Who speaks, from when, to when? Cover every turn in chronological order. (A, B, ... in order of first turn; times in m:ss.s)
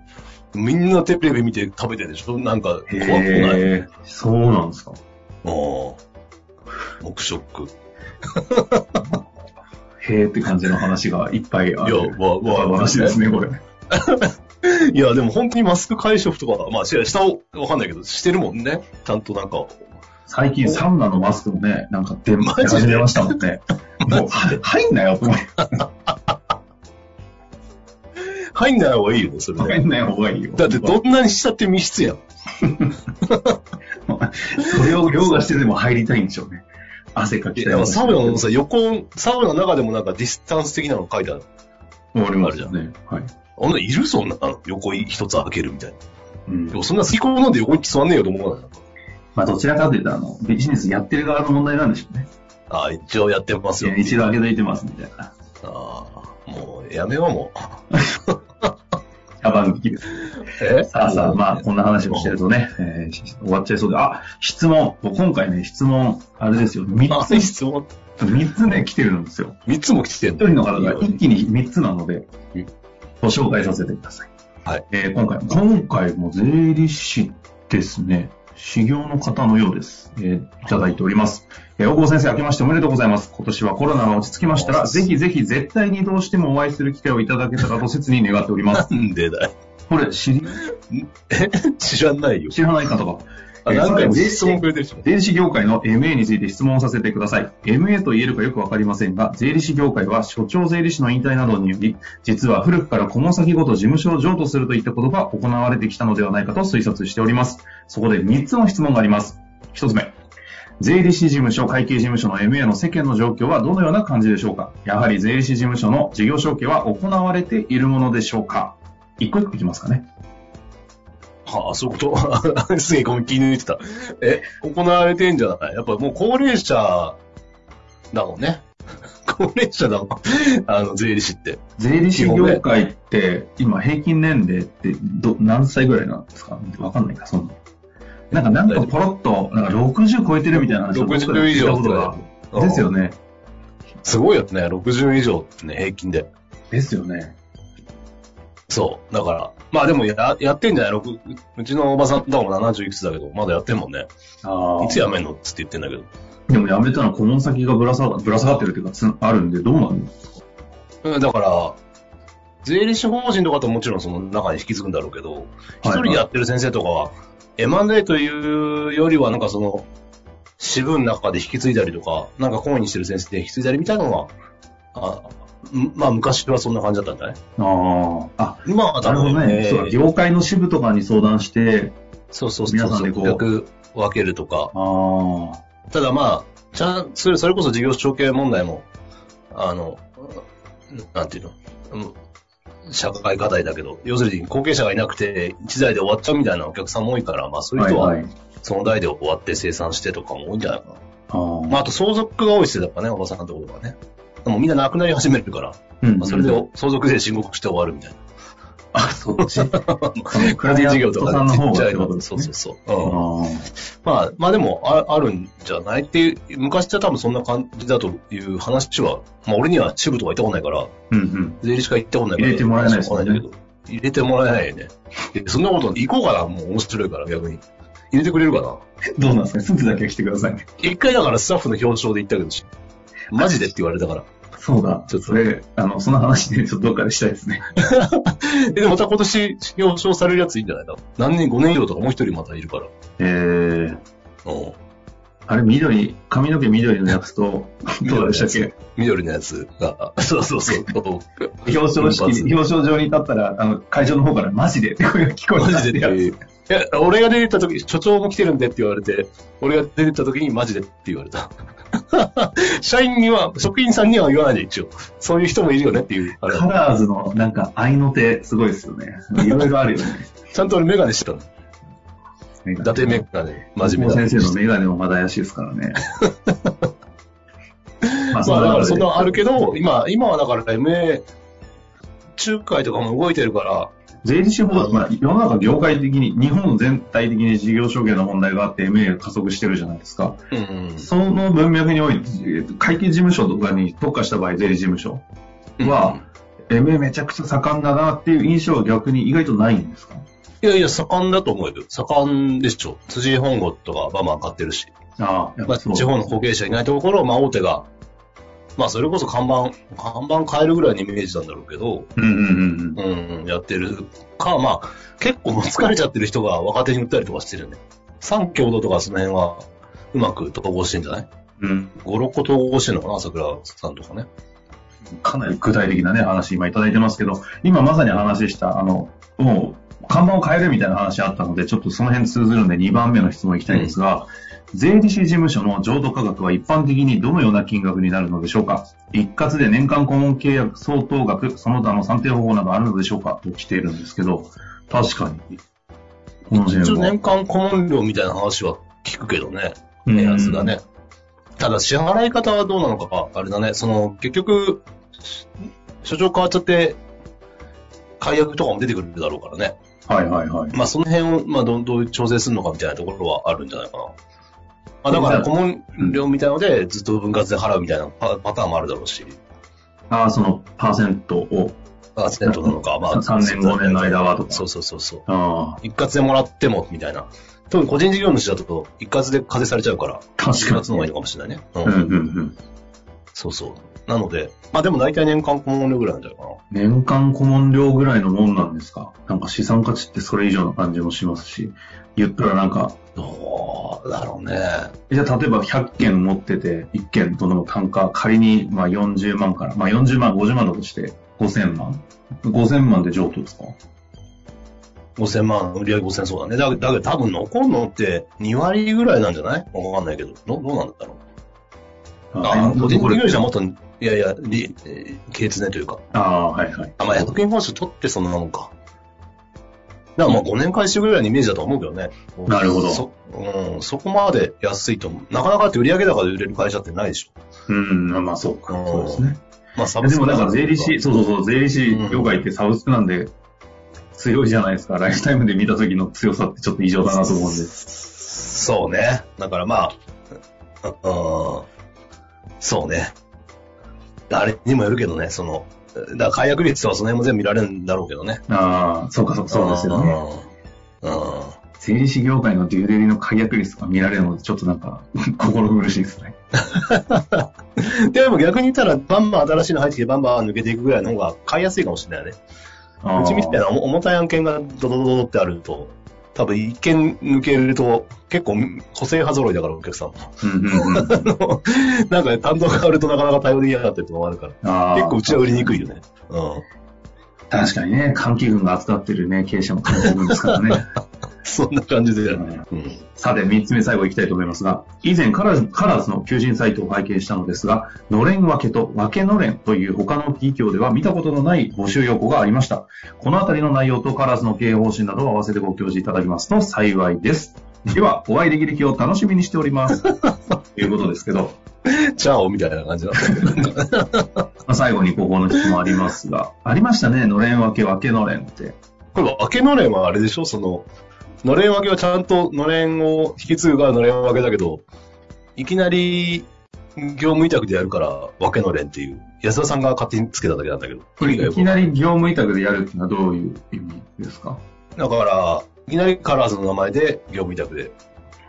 0:00.5-0:03.7 A
0:02.9-0:05.0 B
0:05.4-0:06.0 A
0:07.0-0:07.7 A
0:08.3-0:09.0 A
0:10.0-0:13.6 B
0:11.8-0:13.2 A
0:13.9-0:19.8 A
0:20.3-0:25.8 B
0:22.4-0:23.4 A
0:28.2-0:29.8 A
0:29.6-0:31.0 B
0:30.6-0:32.2 A
0:32.6-0:32.9 B
0:33.2-0:33.6 A
0:34.1-0:38.4 B
0:34.6-0:35.4 A
0:37.6-0:41.4 A
0:42.1-0:43.3 B
0:42.4-0:42.7 A
0:43.6-0:46.0 A
0:46.5-0:46.8 B
0:46.7-0:48.8 A
0:49.3-0:52.3 B
0:52.7-0:54.2 A
0:53.8-0:55.3 B
0:55.6-0:57.8 A
0:59.4-1:00.1 B
1:00.4-1:02.4 A
1:00.9-1:07.5 B
1:07.1-1:08.0 A
1:08.2-1:09.6 B
1:09.7-1:11.2 A
1:10.4-1:12.7 B
1:13.2-1:14.3 B
1:14.9-1:28.9 B
1:24.4-1:25.1 A
1:28.7-1:29.5 A
1:29.9-1:30.6 B
1:30.7-1:32.6 A
1:32.5-1:50.2 B
1:33.6-1:35.0 A
1:50.8-2:00.1 B
2:01.4-2:07.2 A
2:08.1-2:08.7 A
2:09.2-2:11.6 A
2:11.8-2:17.6 B
2:12.2-2:12.6 A
2:18.3-2:23.2 B
2:18.3-2:18.9 A
2:20.5-2:22.9 A
2:24.0-2:26.3 A
2:26.7-2:27.4 B
2:28.7-2:34.1 A
2:34.4-2:35.0 B
2:34.8-2:36.1 A
2:36.5-2:40.1 B
2:41.0-2:41.8 A
2:42.6-2:49.9 A
2:45.8-2:46.2 B
2:50.6-2:54.3 A
2:54.9-2:57.4 A
2:57.6-3:02.0 B
2:58.6-3:00.0 A
3:02.3-3:04.7 A
3:02.7-3:03.4 B
3:04.7-3:05.6 B
3:05.9-3:08.8 A
3:09.5-3:12.1 A
3:12.9-3:21.0 A
3:17.8-3:18.3 B
3:21.3-3:21.8 B
3:21.7-3:28.2 A
3:26.0-3:26.6 B
3:28.9-3:32.5 B
3:29.4-3:33.2 A
3:33.0-3:33.7 B
3:34.0-3:40.9 A
3:41.1-3:41.6 B
3:41.6-3:48.8 A
3:42.4-3:43.4 B
3:49.2-3:50.7 B
3:50.8-3:52.7 A
3:53.3-3:54.3 A
3:54.6-3:57.7 B
3:55.1-3:55.4 A
3:57.8-4:02.9 A
4:03.2-4:04.0 B
4:04.4-4:04.8 A
4:05.5-4:08.7 B
4:08.0-4:12.5 A
4:11.6-4:16.3 B
4:15.6-4:26.8 A
4:26.4-4:30.3 B
4:29.4-4:29.7 A
4:30.5-4:31.5 A
4:32.6-4:33.2 B
4:32.8-4:34.5 A
4:33.8-4:36.0 B
4:36.2-4:36.7 A
4:38.0-4:41.2 A
4:38.3-4:39.8 B
4:42.4-4:43.9 A
4:44.2-4:50.4 B
4:44.7-4:45.1 A
4:50.5-4:51.1 A
4:51.0-4:55.2 B
4:55.8-4:56.2 A
4:55.8-5:00.2 B
5:00.6-5:04.9 A
5:05.2-5:06.2 B
5:05.7-5:07.9 A
5:08.8-5:12.1 A
5:12.2-5:13.0 B
5:13.0-5:21.2 A
5:21.6-5:22.0 B
5:22.0-5:24.3 A
5:25.2-5:45.5 B
5:33.7-5:33.9 A
5:46.5-5:47.1 B
5:46.5-5:50.8 A
5:50.0-5:50.7 B
5:51.6-5:55.4 A
5:56.0-5:57.0 A
5:58.2-5:59.7 A
6:00.1-6:00.8 B
6:00.7-6:04.1 A
6:05.0-6:09.4 A
6:05.1-6:06.2 B
6:10.1-6:11.8 B
6:12.2-6:15.2 A
6:12.4-6:14.6 B
6:15.2-6:15.8 B
6:15.8-6:22.0 A
6:20.4-6:21.1 B
6:21.8-6:22.6 B
6:23.3-6:26.6 A
6:26.7-6:33.0 B
6:33.2-6:34.9 A
6:35.1-6:43.8 B
6:45.2-6:51.2 A
6:52.3-6:53.4 B
6:52.4-6:56.0 A
6:56.1-6:57.3 B
6:57.0-6:58.7 A
7:00.2-7:07.3 A
7:02.4-7:03.0 B
7:07.7-7:09.4 B
7:08.7-7:10.9 A
7:10.0-7:13.3 B
7:11.9-7:12.4 A
7:14.1-7:17.7 B
7:17.8-7:19.9 A
7:20.8-7:21.6 A
7:22.6-7:23.1 A
7:24.3-7:28.4 A
7:28.5-7:30.2 B
7:29.5-7:30.5 A
7:31.0-7:31.5 A
7:31.8-7:36.3 B
7:36.6-7:42.4 A
7:43.0-7:43.6 B
7:43.1-7:56.6 A
7:50.4-7:51.3 B
7:54.6-7:55.9 B
7:57.5-8:00.9 B
7:59.9-8:00.8 A
8:01.4-8:03.0 A
8:02.3-8:02.6 B
8:03.2-8:20.0 B
8:20.0-8:20.3 A
8:20.7-8:21.6 B
8:21.8-8:24.4 A
8:24.6-8:28.8 B
8:29.1-8:30.8 A
8:31.4-8:34.8 A
8:35.6-8:41.9 A
8:41.2-8:44.6 B
8:45.0-8:47.9 A